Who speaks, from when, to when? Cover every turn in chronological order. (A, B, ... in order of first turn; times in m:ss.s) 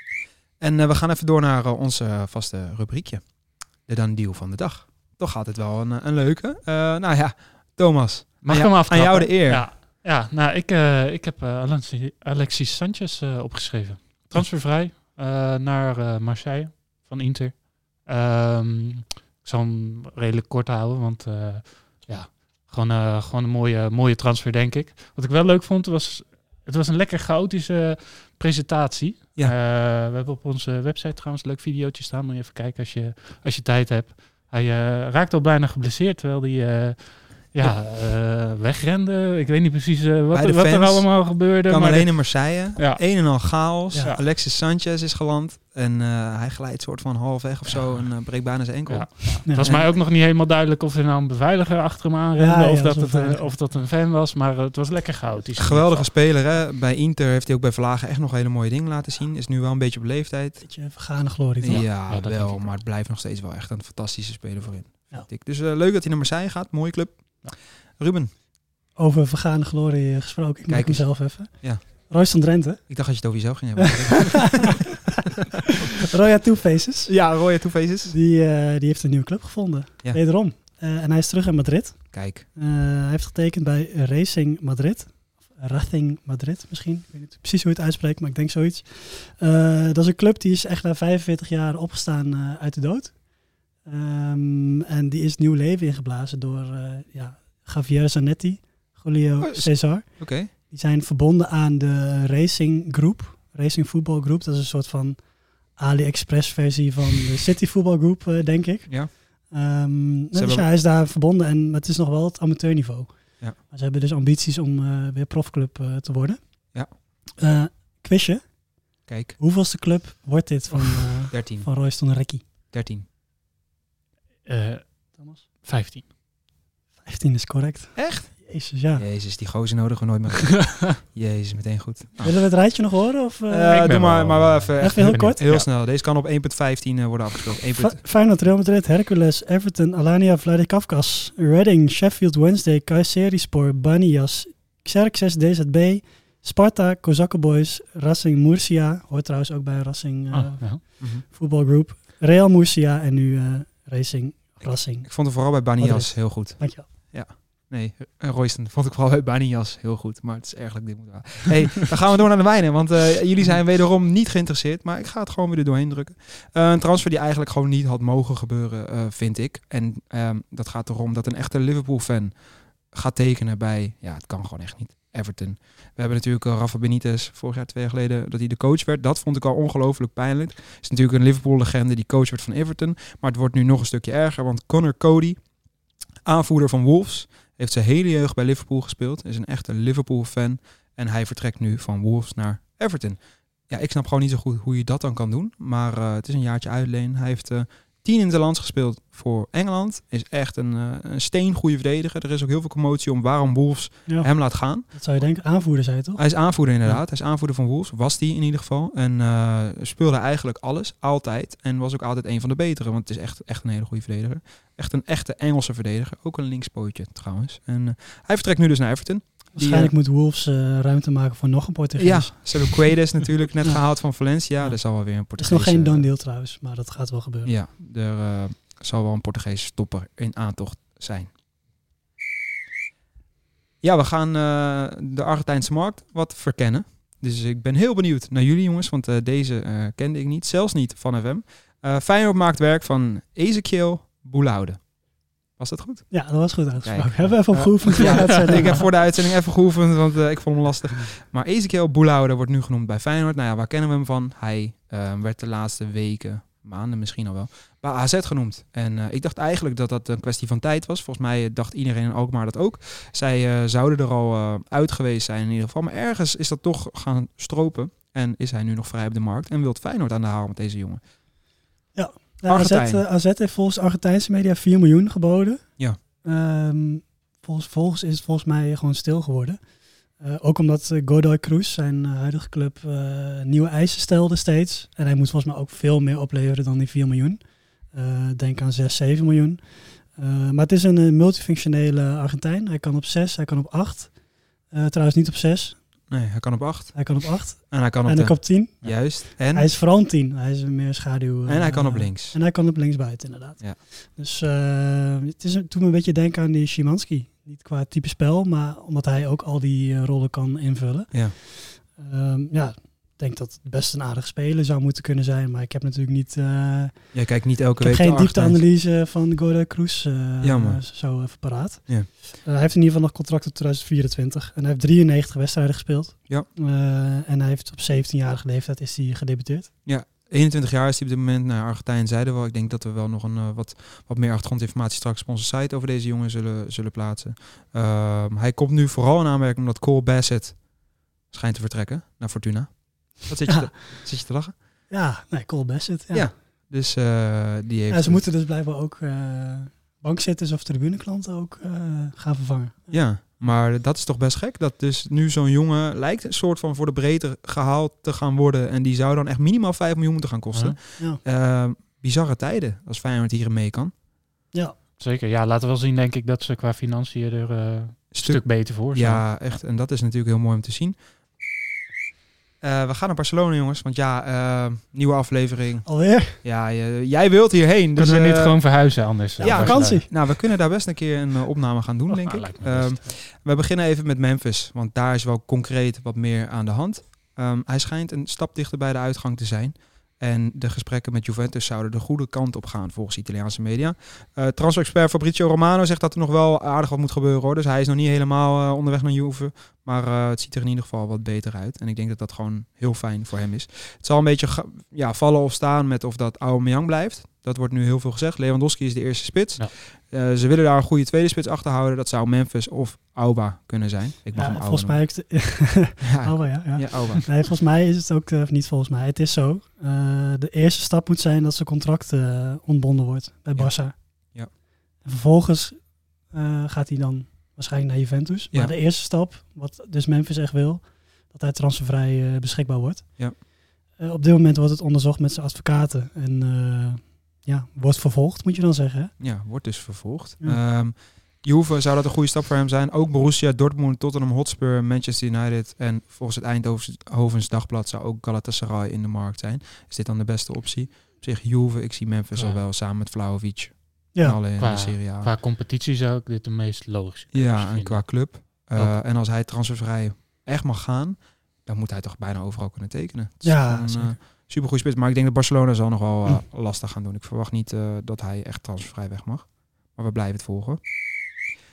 0:00.6-0:09.7 A
0:08.4-0:43.0 B
0:40.3-0:49.9 A
0:47.7-0:48.2 B
0:48.9-0:56.1 B
0:49.5-0:49.7 C
0:52.4-0:53.5 C
0:55.6-1:00.7 A
1:00.6-1:01.8 C
1:01.6-1:08.3 A
1:01.7-1:02.8 B
1:09.0-1:12.9 C
1:10.7-1:11.8 A
1:12.9-1:15.2 A
1:13.8-1:14.9 C
1:16.0-1:17.2 C
1:17.1-1:18.2 A
1:18.1-1:33.2 C
1:22.1-1:22.5 A
1:33.8-1:45.2 C
1:39.4-1:40.5 A
1:45.8-1:56.4 C
1:50.3-1:50.7 A
1:57.4-1:58.4 C
1:59.1-1:59.4 A
1:59.4-2:02.4 C
2:01.3-2:01.7 A
2:02.7-2:03.0 A
2:04.5-2:06.1 B
2:07.0-2:09.0 C
2:08.0-2:12.4 A
2:12.2-2:13.9 C
2:13.5-2:18.0 A
2:13.7-2:15.7 B
2:14.8-2:15.4 C
2:17.8-2:36.9 C
2:30.3-2:30.8 B
2:35.0-2:52.4 A
2:52.9-3:05.4 A
3:06.2-3:24.9 A
3:24.1-3:26.3 C
3:26.2-3:39.9 A
3:39.6-3:42.8 C
3:42.0-3:46.1 A
3:45.4-3:47.5 C
3:47.4-3:51.3 A
3:53.8-4:05.0 A
4:05.6-4:31.0 A
4:06.1-4:09.0 C
4:32.0-4:35.7 C
4:32.5-4:33.0 A
4:36.2-4:39.6 C
4:40.2-4:47.4 C
4:47.9-4:54.2 C
4:54.7-4:55.8 C
4:56.1-4:59.7 A
4:56.9-5:17.2 C
5:01.5-5:02.4 A
5:17.1-5:18.6 A
5:17.8-5:29.7 C
5:20.4-5:20.8 A
5:29.9-5:40.6 A
5:41.3-5:44.5 A
5:44.9-5:46.3 C
5:46.1-5:48.3 A
5:47.9-5:53.0 C
5:52.9-6:03.9 A
6:00.5-6:00.8 B
6:05.0-6:09.3 B
6:08.1-6:11.0 A
6:12.6-6:18.6 A
6:15.8-6:16.4 C
6:18.0-6:20.1 B
6:19.4-6:20.3 C
6:19.4-6:55.0 A
6:22.1-6:23.1 B
6:54.4-7:04.0 C
6:56.0-6:57.3 A
7:03.5-7:04.5 A
7:05.0-7:13.4 C
7:14.0-7:19.1 C
7:19.2-7:35.3 A
7:32.4-7:32.6 B
7:34.1-7:34.4 C
7:34.6-7:39.0 B
7:37.3-7:50.8 A
7:43.4-7:44.2 C